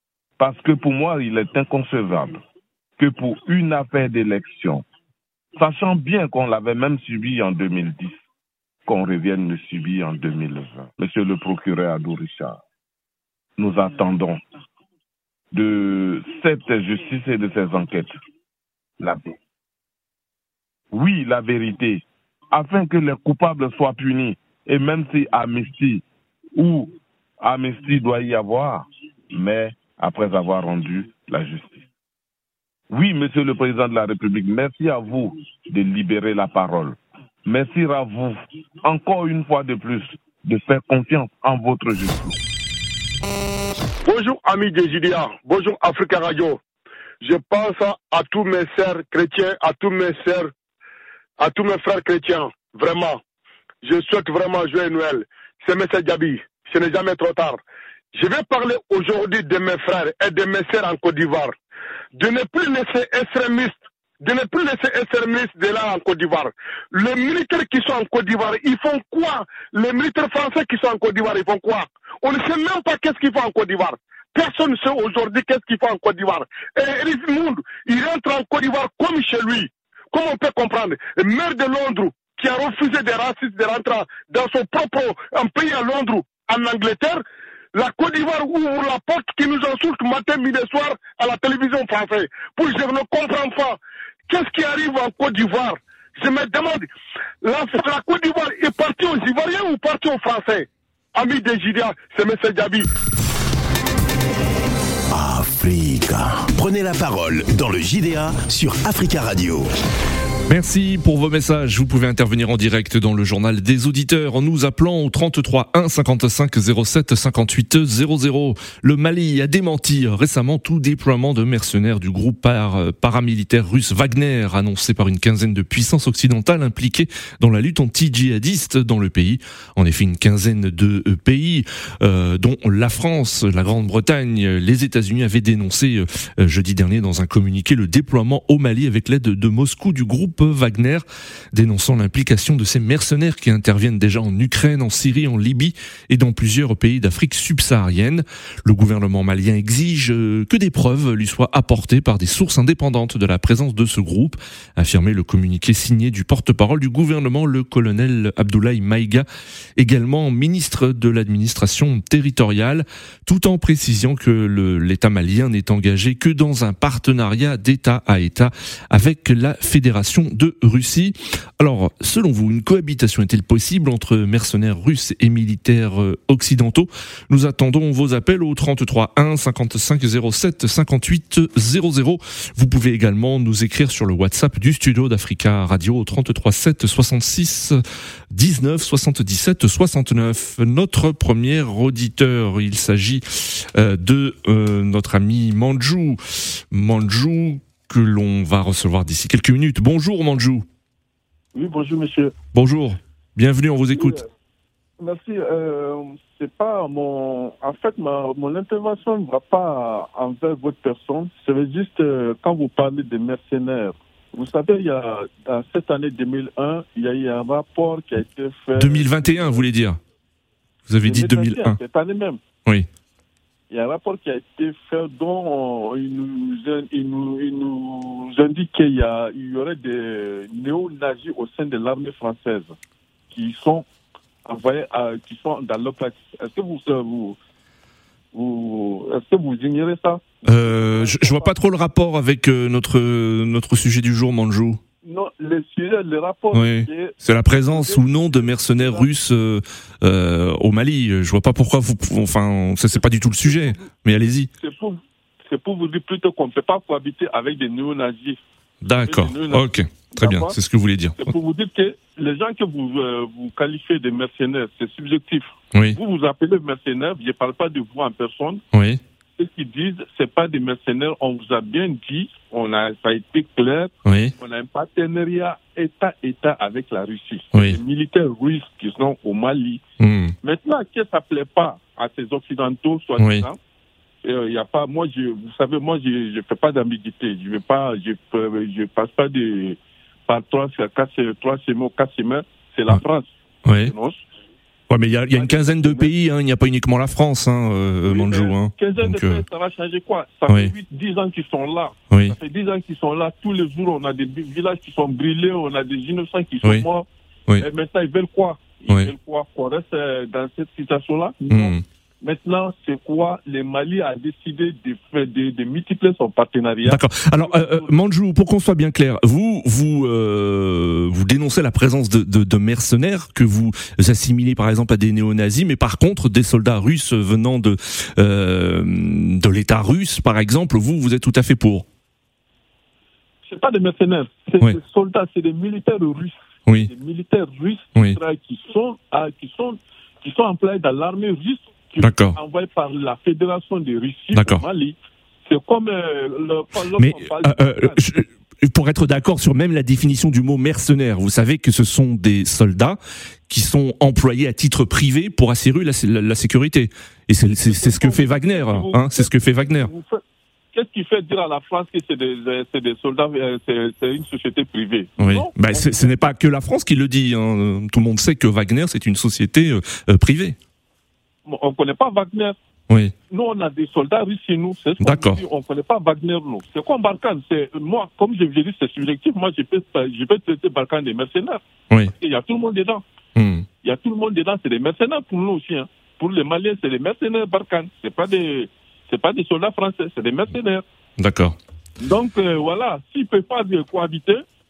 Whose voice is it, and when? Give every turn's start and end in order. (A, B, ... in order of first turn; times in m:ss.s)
0:00.4-0:02.4 A
0:03.0-0:04.8 A
0:05.6-0:08.2 A
0:08.9-0:12.6 A
0:13.6-0:14.4 A
0:15.5-0:18.1 A
0:19.0-0:19.4 A
0:20.9-0:26.0 A
0:26.5-0:31.8 A
0:32.9-0:42.4 A
0:44.0-0:46.6 B
0:47.2-0:50.5 B
0:51.4-0:53.2 B
0:53.8-0:57.6 B
0:58.1-1:01.5 B
1:02.1-1:27.2 B
1:27.7-1:36.9 B
1:37.4-1:42.9 B
1:45.1-1:49.7 C
1:50.5-2:39.2 D
2:39.8-3:07.8 D
3:08.3-3:20.6 D
3:21.5-3:22.3 E
3:22.5-3:24.2 D
3:23.9-3:24.2 E
3:25.0-3:39.6 E
3:38.8-3:40.0 D
3:40.9-3:41.8 D
3:41.0-3:42.4 E
3:43.7-3:52.7 E
3:53.3-3:53.9 E
3:54.4-3:57.4 E
3:58.3-4:01.5 E
4:00.4-4:04.8 D
4:05.0-4:09.1 E
4:06.5-4:14.5 D
4:13.4-4:13.9 E
4:14.6-4:18.4 E
4:18.8-4:21.3 D
4:19.0-4:20.6 E
4:21.2-4:28.6 E
4:28.7-4:29.0 D
4:29.4-4:39.8 E
4:34.0-4:34.3 D
4:37.5-4:37.8 D
4:40.0-4:40.3 D
4:40.4-4:43.6 E
4:43.2-4:43.5 D
4:44.2-4:54.2 E
4:53.6-4:53.9 D
4:54.9-4:59.4 D
4:55.3-4:56.1 E
4:58.0-5:07.1 E
5:00.5-5:00.7 D
5:02.1-5:02.4 D
5:07.6-5:17.9 E
5:11.5-5:11.8 D
5:16.8-5:31.8 D
5:33.4-5:48.0 E
5:42.0-5:42.4 D
5:44.3-5:44.7 D
5:47.0-5:59.9 D
5:57.6-5:59.3 E
5:59.8-6:00.2 E
6:00.7-6:06.3 E
6:05.2-6:10.6 D
6:11.4-6:12.6 E
6:13.3-6:23.0 E
6:15.0-6:15.4 D
6:23.4-6:23.6 D
6:23.8-6:30.8 E
6:31.2-6:31.6 D
6:32.0-6:34.4 E